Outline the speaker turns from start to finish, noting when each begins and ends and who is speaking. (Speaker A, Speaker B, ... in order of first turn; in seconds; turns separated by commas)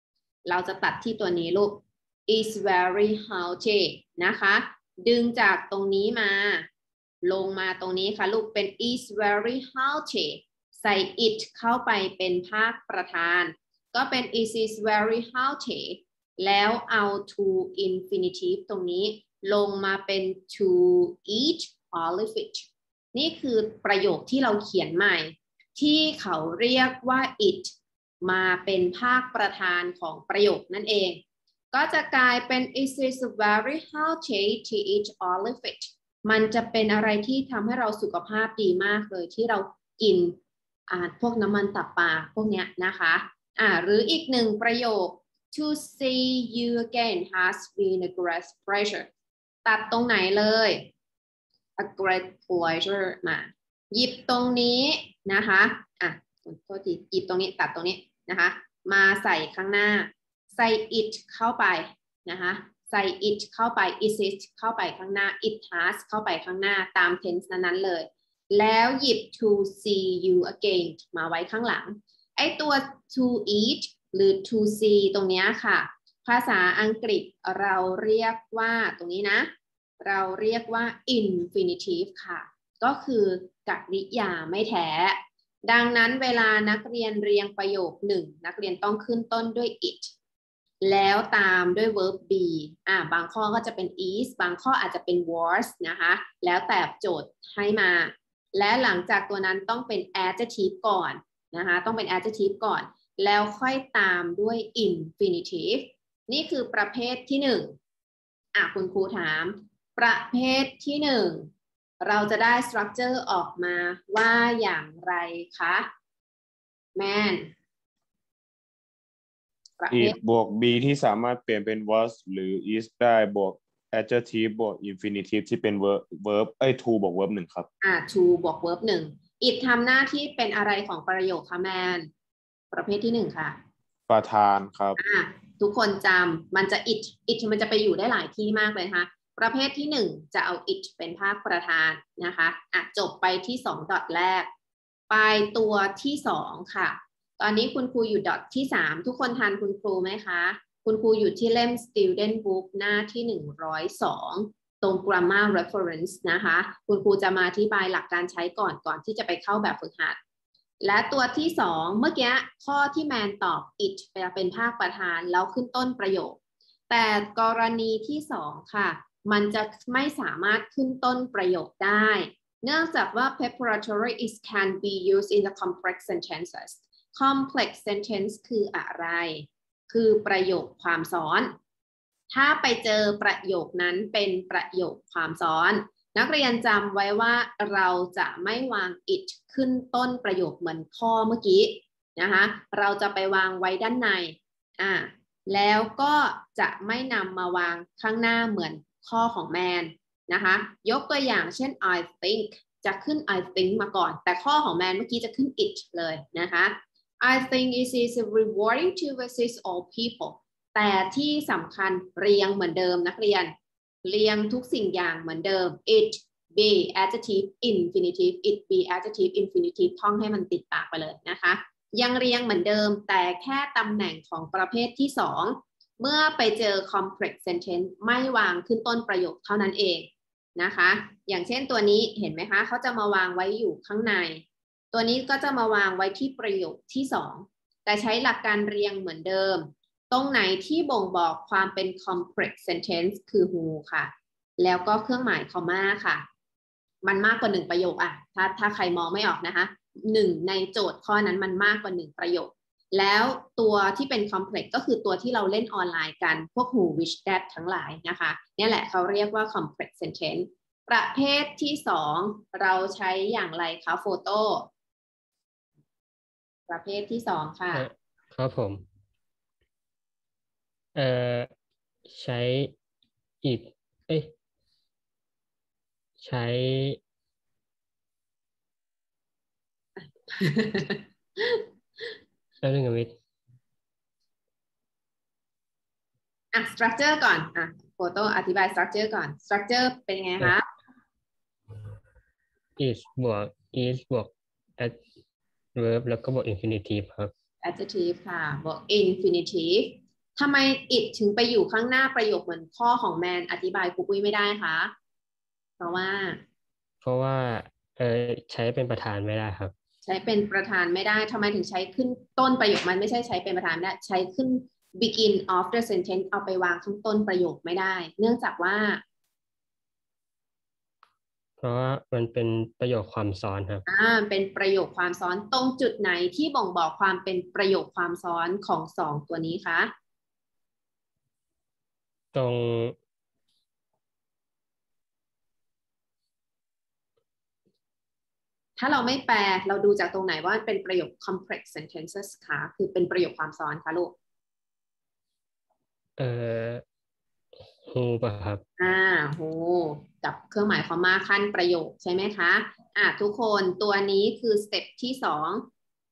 Speaker A: 0.5-6.7, Speaker A: 7.2-27.7, Speaker A: 28.2-31.2, Speaker A: 31.7-40.4, Speaker A: 40.9-49.1, Speaker A: 49.6-50.9, Speaker A: 51.8-90.1, Speaker A: 90.8-107.7, Speaker A: 108.5-111.5, Speaker A: 112.0-115.9, Speaker A: 117.0-117.5, Speaker A: 119.8-120.2, Speaker B: 119.9-127.7, Speaker A: 127.8-132.1, Speaker A: 132.7-133.6, Speaker B: 134.1-135.0, Speaker A: 135.0-144.5, Speaker A: 145.1-160.2, Speaker A: 160.8-166.4, Speaker A: 166.9-181.5, Speaker A: 182.3-213.5, Speaker A: 214.0-246.2, Speaker A: 247.0-264.7, Speaker A: 266.7-267.9, Speaker C: 267.7-268.8, Speaker C: 270.9-271.5, Speaker C: 272.1-272.7, Speaker C: 273.4-274.3, Speaker C: 276.2-277.0, Speaker A: 280.0-281.6, Speaker C: 282.6-283.1, Speaker A: 286.5-290.6, Speaker C: 292.8-295.0, Speaker C: 295.7-297.3, Speaker A: 297.6-304.9, Speaker A: 305.8-306.4, Speaker C: 307.0-309.7, Speaker A: 310.0-319.0, Speaker C: 321.6-323.8, Speaker A: 323.9-329.9, Speaker C: 332.3-332.9, Speaker A: 338.8-344.1, Speaker C: 346.2-346.8, Speaker C: 347.9-348.6, Speaker A: 348.8-355.6